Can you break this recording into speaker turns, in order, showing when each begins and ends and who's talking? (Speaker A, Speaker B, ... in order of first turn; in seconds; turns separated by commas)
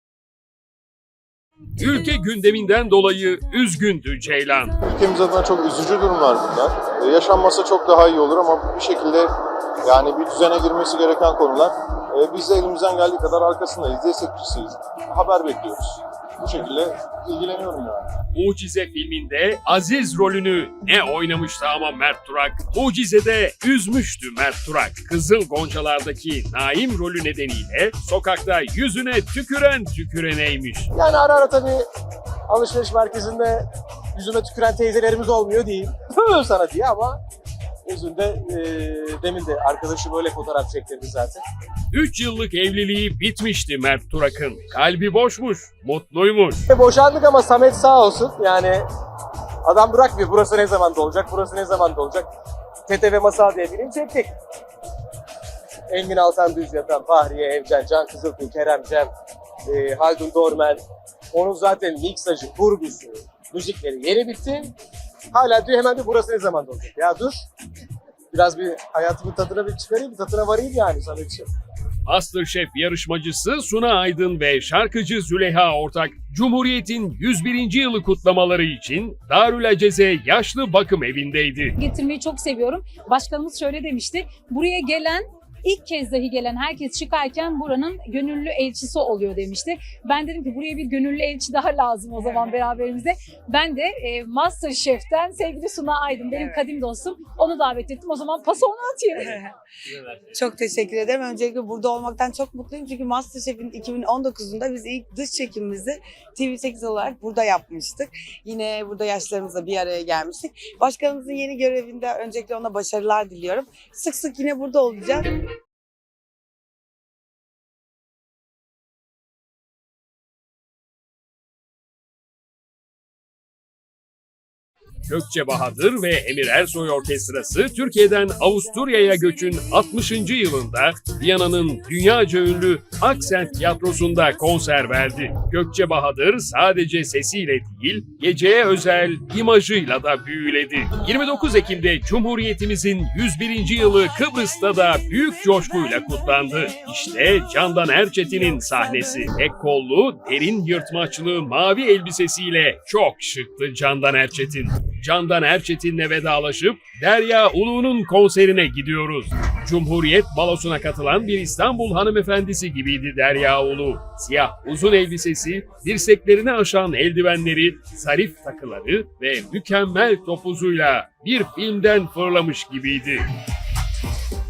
Speaker A: 1.8-4.8, Speaker B: 4.8-9.3, Speaker B: 9.8-18.1, Speaker A: 18.3-30.9, Speaker C: 30.9-31.8, Speaker C: 32.5-37.2, Speaker C: 37.9-41.4, Speaker A: 41.9-46.6, Speaker C: 46.7-48.9, Speaker C: 49.6-52.3, Speaker C: 52.9-54.3, Speaker C: 55.9-59.1, Speaker C: 59.7-64.7, Speaker C: 65.3-67.4, Speaker C: 68.3-71.5, Speaker A: 72.0-81.8, Speaker D: 81.8-99.3, Speaker E: 99.2-99.5, Speaker E: 100.3-115.3, Speaker A: 125.1-173.2